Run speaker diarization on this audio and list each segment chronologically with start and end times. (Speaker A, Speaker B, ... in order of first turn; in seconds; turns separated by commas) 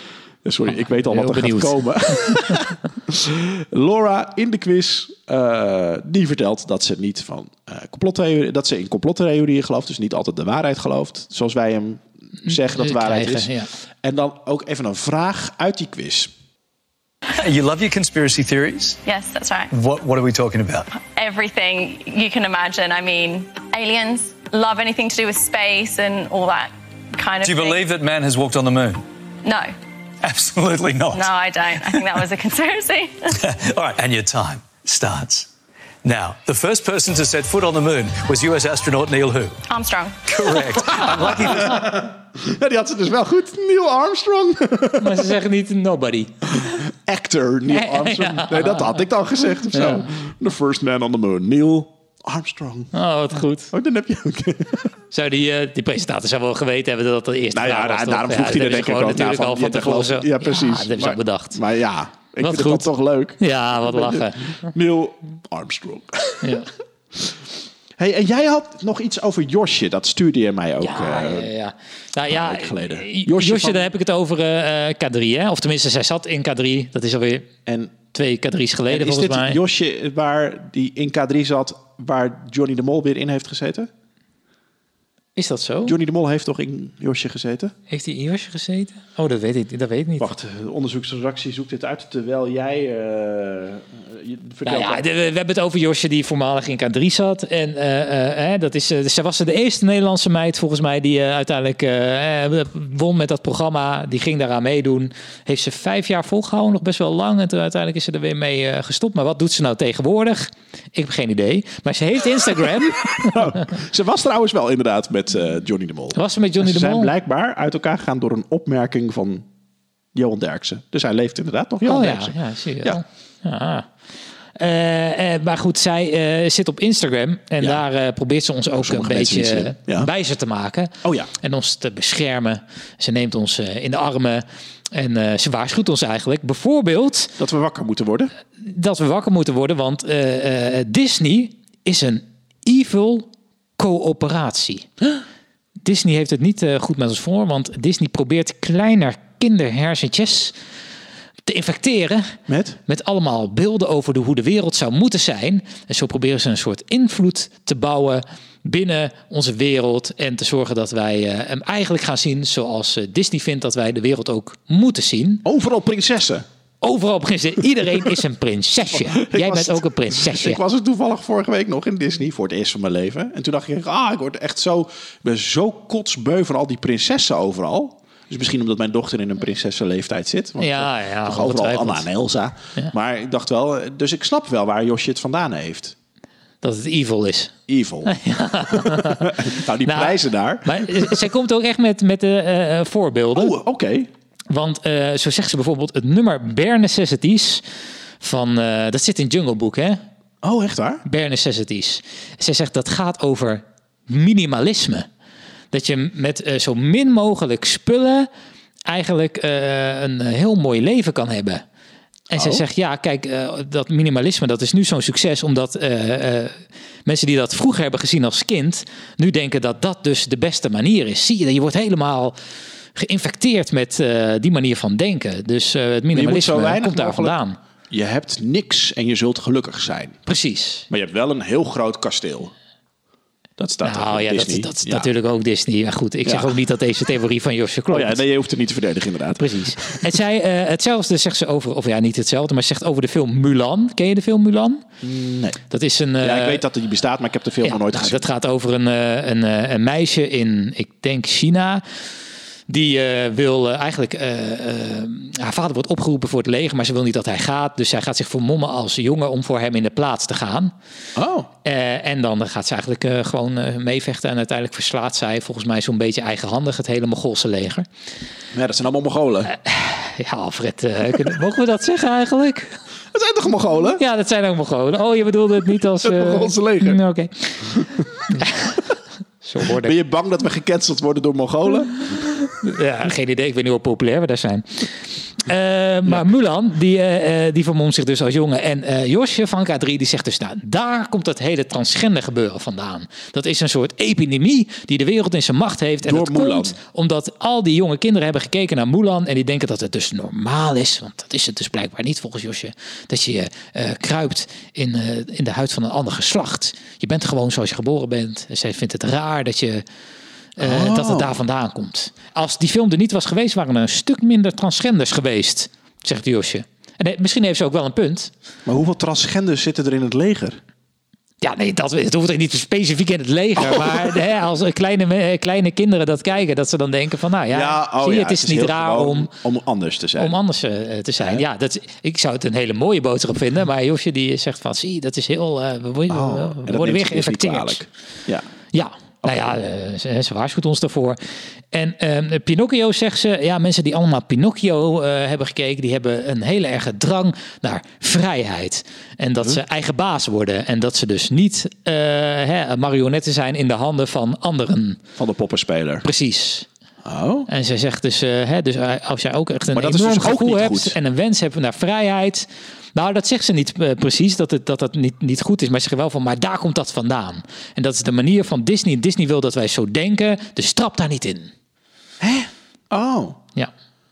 Speaker A: 0.4-13.5, Speaker B: 0.7-2.4, Speaker B: 12.5-13.7, Speaker A: 14.0-16.3, Speaker C: 17.4-19.0, Speaker D: 19.1-19.7, Speaker C: 19.7-20.9, Speaker D: 20.9-27.8, Speaker C: 27.4-29.0, Speaker D: 29.4-29.7, Speaker C: 30.2-32.2, Speaker D: 31.1-33.2, Speaker C: 33.4-35.5, Speaker C: 36.0-39.6, Speaker D: 39.7-40.6, Speaker C: 40.3-41.9, Speaker A: 40.8-45.4, Speaker B: 45.0-46.7, Speaker A: 46.5-54.9, Speaker B: 47.7-49.0, Speaker B: 49.7-50.1, Speaker B: 52.9-53.7, Speaker B: 55.1-61.6, Speaker A: 57.5-67.4, Speaker B: 62.4-62.9, Speaker B: 63.4-64.7, Speaker B: 66.4-66.7, Speaker A: 68.0-71.5, Speaker B: 70.8-77.5, Speaker A: 72.3-73.9, Speaker A: 77.7-78.0, Speaker B: 78.1-79.6, Speaker A: 78.9-83.9, Speaker B: 85.4-86.0, Speaker A: 85.8-87.7, Speaker B: 87.9-90.3, Speaker A: 90.2-95.0, Speaker B: 94.7-113.7, Speaker A: 113.1-119.5, Speaker B: 116.1-117.1, Speaker A: 120.1-123.0, Speaker B: 121.8-123.9, Speaker B: 124.6-137.4, Speaker A: 128.7-130.1, Speaker A: 131.0-131.3, Speaker A: 137.4-138.3, Speaker B: 138.6-144.9, Speaker B: 145.8-150.6, Speaker B: 151.5-165.4, Speaker A: 152.5-152.8, Speaker A: 165.4-166.5, Speaker B: 166.8-170.6, Speaker A: 168.9-185.9, Speaker B: 180.6-182.1, Speaker B: 186.6-187.5, Speaker A: 187.7-188.2, Speaker B: 188.1-193.6, Speaker A: 188.7-191.2, Speaker A: 193.3-194.1, Speaker B: 194.5-197.6, Speaker B: 198.2-200.0, Speaker A: 200.4-201.0, Speaker B: 201.1-205.1, Speaker B: 205.7-208.3, Speaker B: 208.9-211.6, Speaker A: 212.3-212.6, Speaker B: 212.3-222.3, Speaker B: 222.9-227.6, Speaker A: 226.1-227.4, Speaker A: 227.9-230.2, Speaker B: 230.3-230.9, Speaker A: 230.9-232.5, Speaker A: 233.6-235.1, Speaker B: 233.8-238.2, Speaker A: 236.2-236.6, Speaker A: 237.9-240.2, Speaker B: 239.4-244.8, Speaker A: 245.0-245.6, Speaker B: 245.7-246.6, Speaker A: 246.2-248.2, Speaker B: 247.6-251.8, Speaker B: 252.7-260.7, Speaker A: 261.2-261.5, Speaker B: 261.6-267.9, Speaker A: 268.5-269.5, Speaker B: 269.5-272.8, Speaker A: 273.1-274.0, Speaker B: 274.0-278.8, Speaker A: 276.0-277.0, Speaker A: 277.6-278.5, Speaker B: 279.4-279.9, Speaker A: 279.6-281.9, Speaker B: 282.1-309.9, Speaker A: 296.0-296.8, Speaker B: 310.6-318.3, Speaker A: 310.6-311.4, Speaker A: 318.7-320.6, Speaker B: 321.4-329.3, Speaker A: 323.6-324.2, Speaker A: 327.5-330.4, Speaker B: 330.2-337.8, Speaker A: 331.2-331.4, Speaker A: 336.1-338.5, Speaker B: 338.7-341.2, Speaker A: 339.2-339.6, Speaker B: 341.7-355.0, Speaker A: 355.2-356.1, Speaker B: 356.0-356.7, Speaker A: 357.1-357.5, Speaker B: 357.5-371.5, Speaker A: 359.8-361.0, Speaker A: 372.2-373.4